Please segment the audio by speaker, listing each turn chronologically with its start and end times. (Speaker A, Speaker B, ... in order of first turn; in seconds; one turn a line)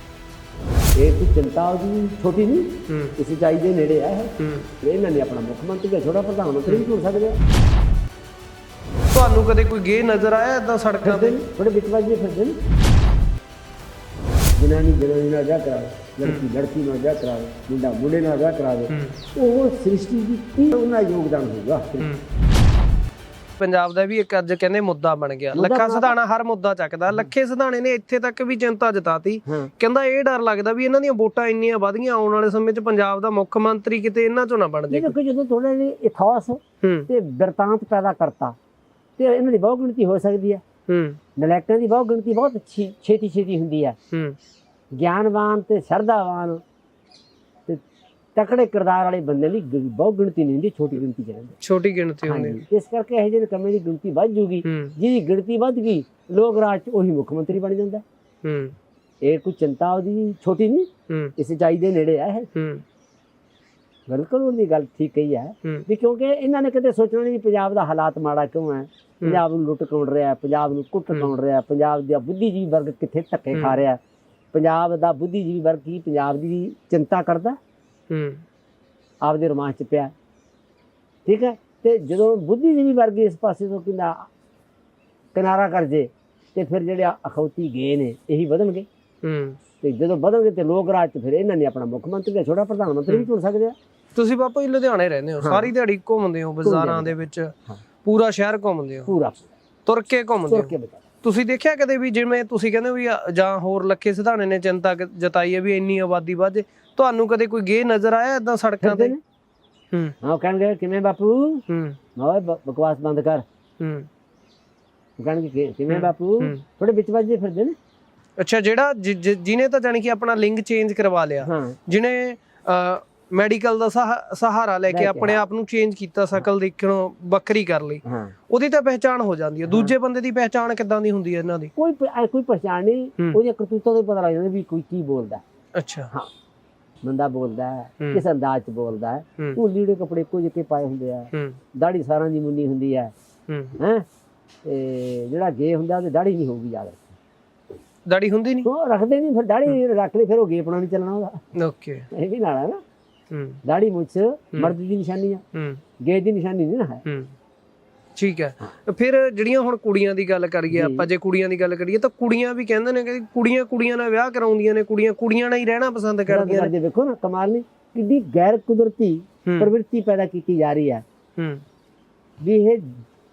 Speaker A: 1.0-7.4
Speaker B: 2.9-3.1
Speaker B: 4.4-4.7
Speaker B: 9.1-11.4
Speaker A: 11.0-12.6
Speaker A: 14.6-22.1
Speaker B: 18.9-19.2
Speaker B: 23.6-35.1
Speaker A: 25.5-26.1
Speaker A: 29.5-29.7
Speaker A: 34.9-38.6
Speaker B: 36.8-37.1
Speaker A: 39.2-40.6
Speaker B: 40.9-41.2
Speaker A: 41.4-44.0
Speaker B: 44.1-44.4
Speaker A: 44.9-46.6
Speaker A: 48.4-51.6
Speaker B: 51.6-52.6
Speaker A: 52.3-58.0
Speaker B: 54.6-55.0
Speaker B: 58.4-58.8
Speaker A: 59.2-62.5
Speaker B: 62.5-62.8
Speaker A: 64.1-74.0
Speaker B: 73.5-73.8
Speaker A: 74.5-77.6
Speaker B: 78.1-78.4
Speaker A: 79.2-80.1
Speaker A: 81.3-84.3
Speaker A: 85.3-88.9
Speaker B: 89.2-89.6
Speaker A: 89.8-93.8
Speaker B: 94.2-97.5
Speaker A: 95.4-95.7
Speaker A: 96.6-97.2
Speaker B: 98.0-99.1
Speaker A: 99.1-99.5
Speaker B: 99.9-109.2
Speaker A: 100.5-101.0
Speaker A: 108.8-109.2
Speaker A: 110.2-111.7
Speaker B: 111.7-112.0
Speaker A: 112.2-113.4
Speaker B: 113.8-114.1
Speaker A: 115.2-117.8
Speaker B: 115.9-116.6
Speaker B: 118.4-131.7
Speaker A: 121.4-121.8
Speaker A: 124.9-125.4
Speaker A: 128.1-128.3
Speaker A: 129.7-129.9
Speaker A: 131.8-135.4
Speaker B: 135.8-136.1
Speaker A: 137.0-143.1
Speaker B: 141.3-141.6
Speaker B: 143.5-143.8
Speaker A: 143.8-144.1
Speaker A: 144.7-147.2
Speaker B: 148.1-148.7
Speaker A: 148.7-151.4
Speaker B: 151.6-152.1
Speaker A: 152.1-152.8
Speaker B: 153.3-153.6
Speaker A: 153.6-155.4
Speaker B: 155.5-155.8
Speaker A: 156.0-157.0
Speaker B: 157.1-157.3
Speaker B: 158.2-166.7
Speaker A: 160.7-161.1
Speaker A: 166.3-171.0
Speaker B: 169.5-169.7
Speaker B: 171.4-171.6
Speaker A: 172.4-173.0